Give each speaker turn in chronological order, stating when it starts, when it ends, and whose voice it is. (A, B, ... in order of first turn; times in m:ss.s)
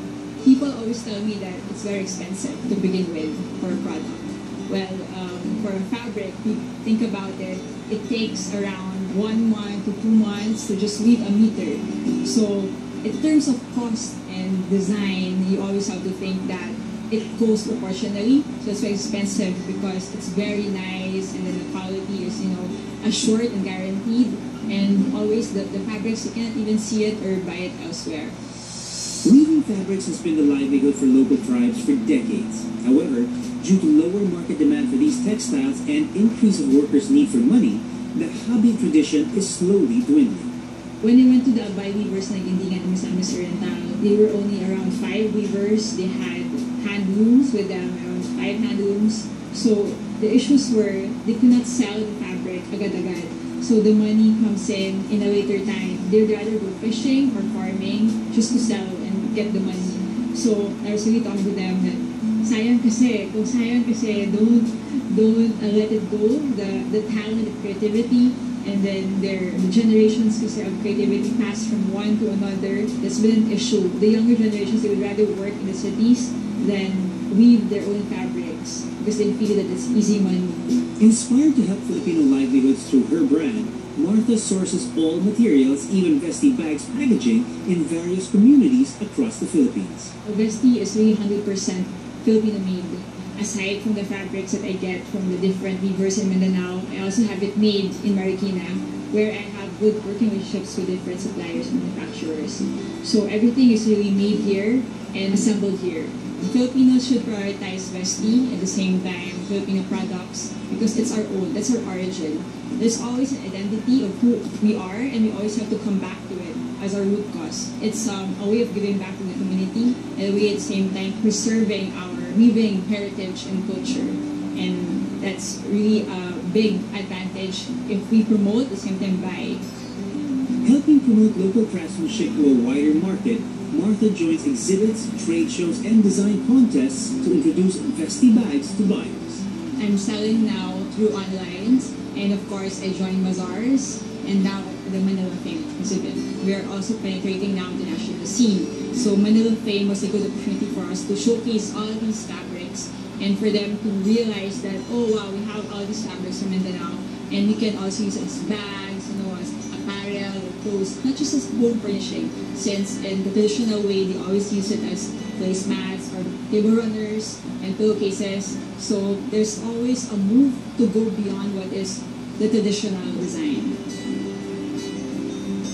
0:00.4-0:28.4 A
0:29.2-0:40.5 B
0:41.0-1:20.7 A
1:21.0-1:30.1 B
1:30.2-2:09.6 A
2:10.6-2:19.4 B
2:19.8-2:53.8 A